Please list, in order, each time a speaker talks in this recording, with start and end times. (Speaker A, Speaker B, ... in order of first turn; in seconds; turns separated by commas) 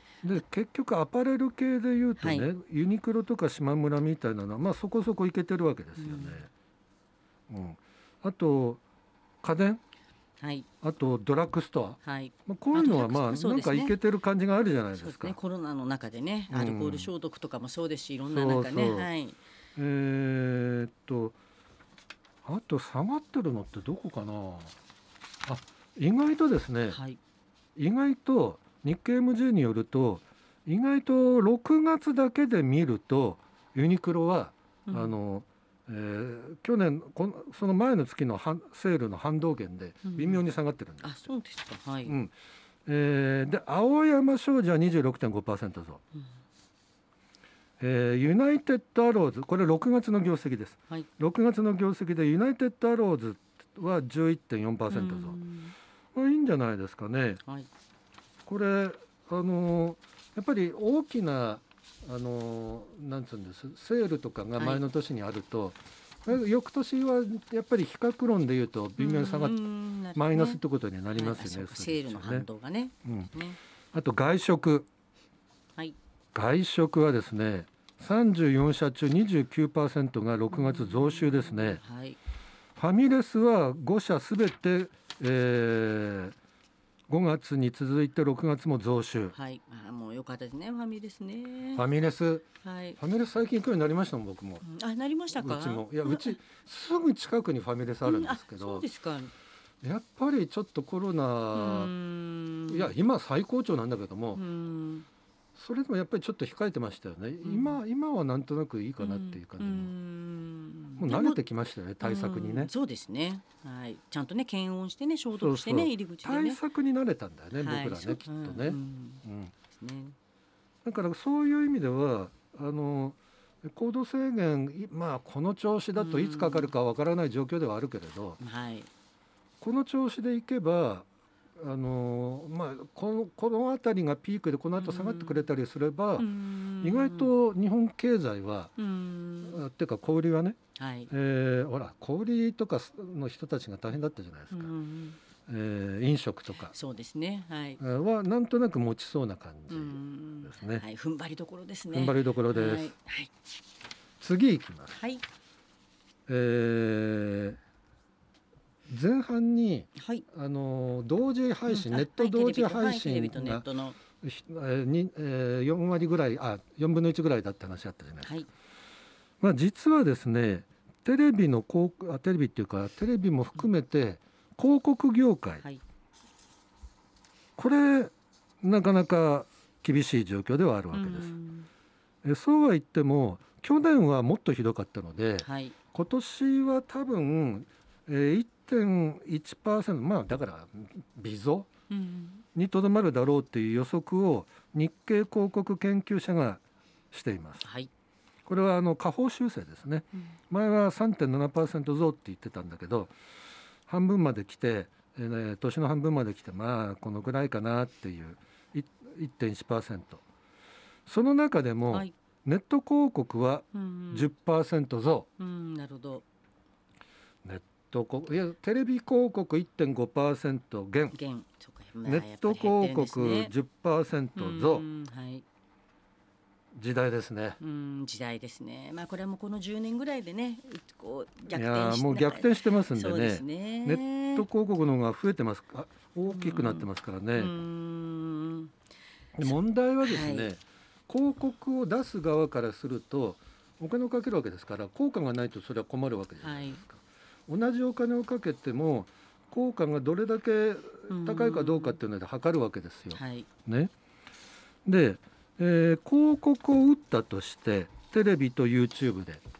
Speaker A: 0.2-6.5, Speaker B: 2.2-2.5, Speaker B: 6.0-6.5, Speaker A: 7.5-8.8, Speaker A: 9.4-9.8, Speaker B: 10.4-10.7, Speaker A: 10.8-15.3, Speaker B: 12.0-13.9, Speaker B: 14.9-19.4, Speaker A: 16.5-17.1, Speaker A: 18.3-19.1, Speaker A: 19.8-21.4, Speaker A: 22.4-24.8, Speaker A: 25.4-27.0, Speaker B: 26.9-27.2, Speaker A: 27.8-41.2, Speaker B: 34.9-35.1, Speaker B: 40.0-40.4, Speaker B: 41.0-42.2, Speaker A: 42.1-42.3, Speaker A: 42.9-46.0, Speaker A: 47.8-55.4, Speaker B: 54.9-55.7, Speaker A: 56.1-57.4, Speaker A: 58.5-69.6, Speaker B: 64.6-64.8, Speaker B: 69.0-70.6, Speaker A: 70.1-72.5, Speaker B: 71.1-73.6, Speaker A: 73.0-73.3, Speaker A: 73.9-74.9, Speaker A: 76.3-81.8, Speaker B: 80.5-82.2, Speaker A: 82.8-86.3, Speaker A: 87.1-89.3, Speaker B: 89.3-91.8, Speaker A: 91.7-92.5, Speaker B: 92.6-93.0, Speaker A: 93.0-94.7, Speaker B: 94.6-96.3, Speaker A: 95.3-98.8, Speaker B: 98.0-99.3, Speaker A: 99.8-101.9, Speaker B: 101.5-102.9, Speaker A: 102.7-104.4, Speaker B: 104.3-105.1, Speaker A: 105.5-109.9, Speaker B: 107.4-107.8, Speaker B: 109.0-111.4, Speaker A: 111.0-112.7, Speaker B: 112.0-116.6, Speaker A: 115.3-119.5, Speaker B: 117.5-120.2, Speaker A: 120.8-128.4, Speaker B: 125.9-126.7, Speaker B: 128.4-128.9, Speaker A: 129.6-131.1, Speaker A: 131.6-136.3, Speaker B: 134.8-135.5, Speaker B: 136.2-137.3, Speaker A: 136.8-138.7, Speaker B: 138.8-139.6, Speaker A: 139.4-140.6, Speaker B: 140.8-141.1, Speaker A: 141.1-144.7, Speaker B: 144.5-145.2, Speaker A: 145.5-146.7, Speaker B: 146.6-147.8, Speaker A: 147.8-150.8, Speaker B: 149.7-153.3, Speaker A: 151.9-152.9, Speaker A: 154.2-155.0, Speaker B: 154.9-155.2, Speaker A: 156.3-157.6, Speaker A: 158.9-163.7, Speaker B: 159.9-160.2, Speaker B: 161.7-164.0, Speaker A: 164.2-168.3, Speaker A: 169.4-175.6, Speaker A: 177.6-181.3, Speaker B: 180.9-181.7, Speaker A: 182.2-191.7, Speaker B: 185.4-185.7, Speaker B: 191.9-192.4, Speaker A: 192.6-196.6, Speaker A: 197.1-197.6, Speaker B: 197.6-197.9, Speaker A: 198.4-203.1, Speaker A: 203.9-210.2, Speaker A: 211.1-215.3, Speaker B: 213.7-214.3, Speaker B: 215.4-216.2, Speaker A: 217.4-221.2, Speaker B: 221.1-223.5, Speaker A: 222.1-224.8, Speaker B: 224.3-225.4, Speaker A: 226.7-227.6, Speaker B: 227.6-234.4, Speaker A: 231.5-237.6, Speaker B: 236.3-238.7, Speaker A: 239.3-253.9, Speaker B: 239.4-240.5, Speaker B: 246.4-246.8, Speaker B: 251.1-252.0, Speaker B: 253.1-253.5, Speaker A: 254.8-259.4